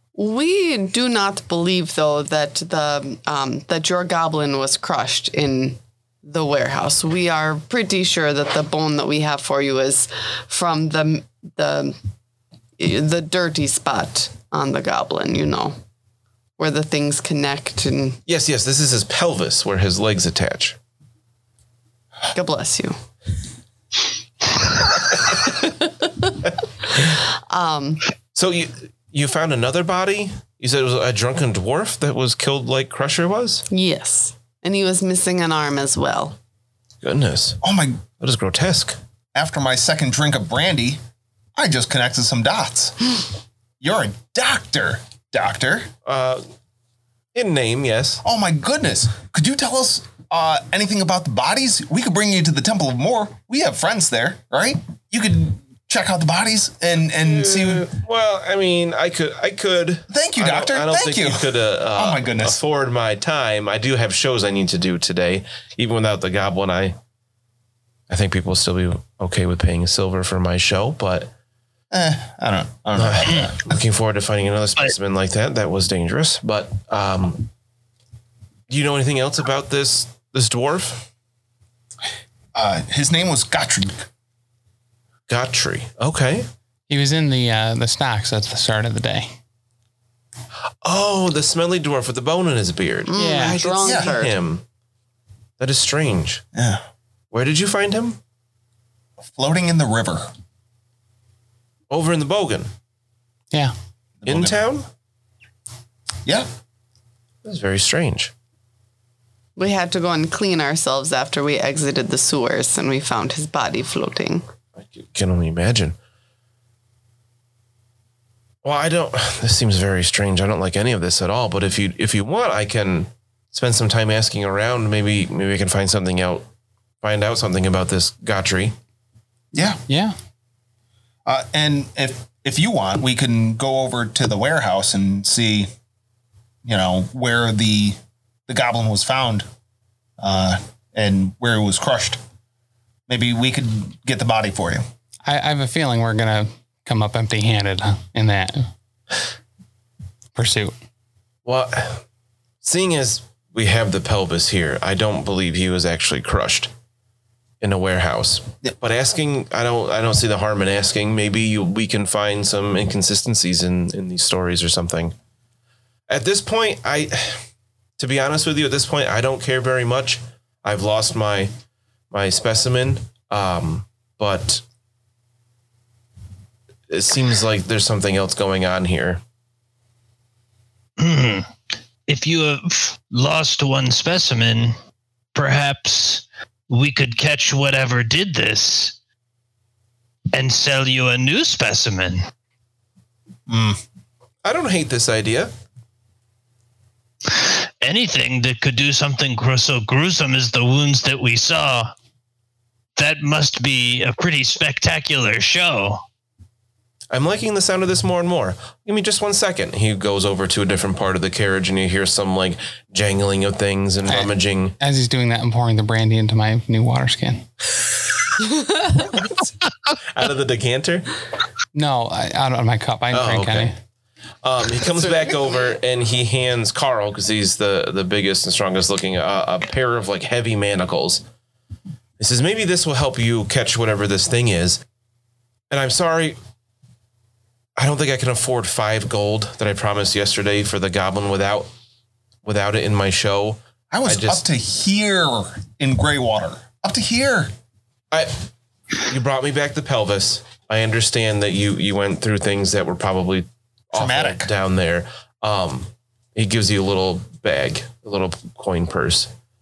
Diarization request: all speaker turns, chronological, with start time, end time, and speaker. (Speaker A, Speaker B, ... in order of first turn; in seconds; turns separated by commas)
Speaker A: 0.1-11.9, Speaker A: 12.8-15.8, Speaker A: 16.6-18.2, Speaker B: 18.3-20.8, Speaker A: 22.3-22.9, Speaker A: 25.4-26.3, Speaker A: 26.9-28.0, Speaker B: 28.3-33.6, Speaker A: 33.7-36.4, Speaker B: 37.0-37.6, Speaker C: 37.6-38.0, Speaker B: 38.2-39.0, Speaker C: 39.3-41.0, Speaker C: 41.5-43.2, Speaker C: 43.8-45.9, Speaker B: 46.0-46.4, Speaker B: 47.3-48.2, Speaker C: 48.2-57.9, Speaker B: 57.2-67.0, Speaker C: 60.1-62.6, Speaker B: 68.1-71.3, Speaker C: 71.9-73.7, Speaker B: 73.0-77.5, Speaker B: 78.7-81.1, Speaker C: 82.5-83.9, Speaker B: 85.3-86.5, Speaker D: 86.9-89.3, Speaker B: 90.8-94.6, Speaker A: 93.1-94.3, Speaker D: 93.2-93.6, Speaker C: 93.8-94.1, Speaker B: 95.6-96.4, Speaker C: 96.5-96.8, Speaker B: 97.3-98.2, Speaker C: 99.3-100.3, Speaker B: 101.9-102.7, Speaker C: 104.2-104.6, Speaker B: 104.2-104.9, Speaker B: 107.4-108.3, Speaker A: 109.6-114.4, Speaker B: 114.8-116.0, Speaker B: 118.6-126.5, Speaker B: 127.0-128.7, Speaker C: 129.5-129.8, Speaker D: 129.9-130.2, Speaker C: 131.2-135.7, Speaker C: 136.6-139.4, Speaker C: 140.2-142.2, Speaker C: 143.1-144.8, Speaker D: 145.2-148.7, Speaker D: 150.3-150.7, Speaker B: 151.4-152.0, Speaker B: 152.6-156.7, Speaker B: 157.6-165.1, Speaker B: 166.1-167.4, Speaker B: 168.0-171.5, Speaker B: 172.1-174.6, Speaker B: 176.9-179.2, Speaker E: 181.0-181.5, Speaker E: 182.1-184.7, Speaker E: 185.3-188.9, Speaker E: 190.3-192.2, Speaker C: 193.5-193.8, Speaker B: 194.4-195.5, Speaker E: 197.3-201.9, Speaker E: 203.0-206.0, Speaker B: 207.1-214.8, Speaker D: 214.1-217.4, Speaker B: 220.1-221.1, Speaker D: 221.7-223.7, Speaker B: 223.1-223.7, Speaker B: 224.4-231.2, Speaker B: 232.2-234.8, Speaker B: 235.7-236.4, Speaker B: 237.8-241.7, Speaker B: 242.4-244.4, Speaker C: 243.9-247.5, Speaker B: 248.1-248.4, Speaker B: 249.1-259.3, Speaker C: 253.9-254.5